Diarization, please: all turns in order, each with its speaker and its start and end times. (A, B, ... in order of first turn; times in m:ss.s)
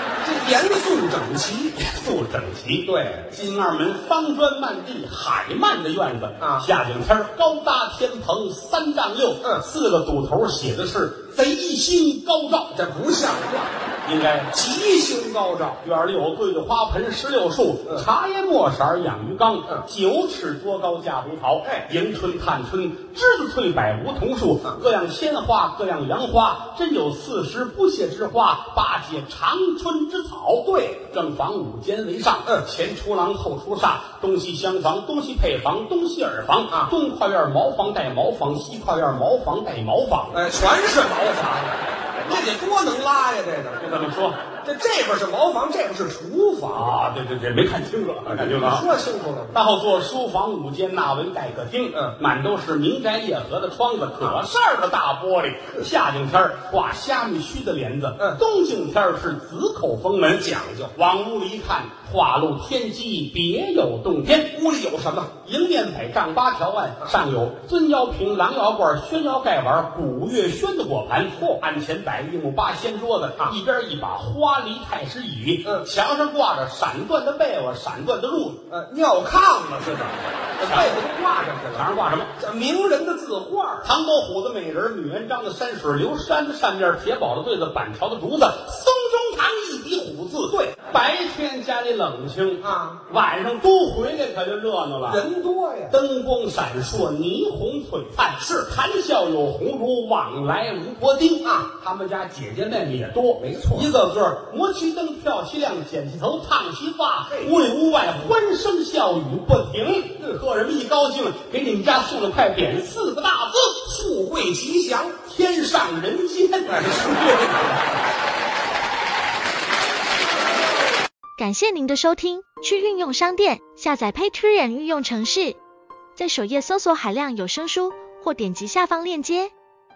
0:00.2-0:01.8 A
0:01.8-0:12.7 B
0:02.8-0:03.3 A
0:06.4-0:06.7 A
0:12.7-0:13.7 A
0:14.0-0:14.5 B
0:14.5-0:15.8 A
0:15.8-0:40.4 B
0:21.6-0:21.9 A
0:30.7-0:31.0 A
0:40.3-0:43.9 A
0:43.8-0:44.4 B
0:44.6-0:47.0 A
0:46.7-0:48.9 B
0:48.2-0:49.6 A
0:49.5-1:04.5 B
1:00.3-1:00.9 A
1:04.5-1:05.3 A
1:05.4-1:18.6 B
1:18.7-1:23.9 A
1:20.6-1:21.0 B
1:21.7-1:22.3 B
1:23.8-1:35.2 B
1:30.5-1:30.8 A
1:32.6-1:33.0 A
1:35.0-1:36.0 A
1:35.9-1:54.1 B
1:43.4-1:43.9 A
1:53.9-1:55.2 A
1:55.2-1:57.7 B
1:56.7-1:57.8 A
2:01.4-2:05.6 C
2:06.2-2:09.5 C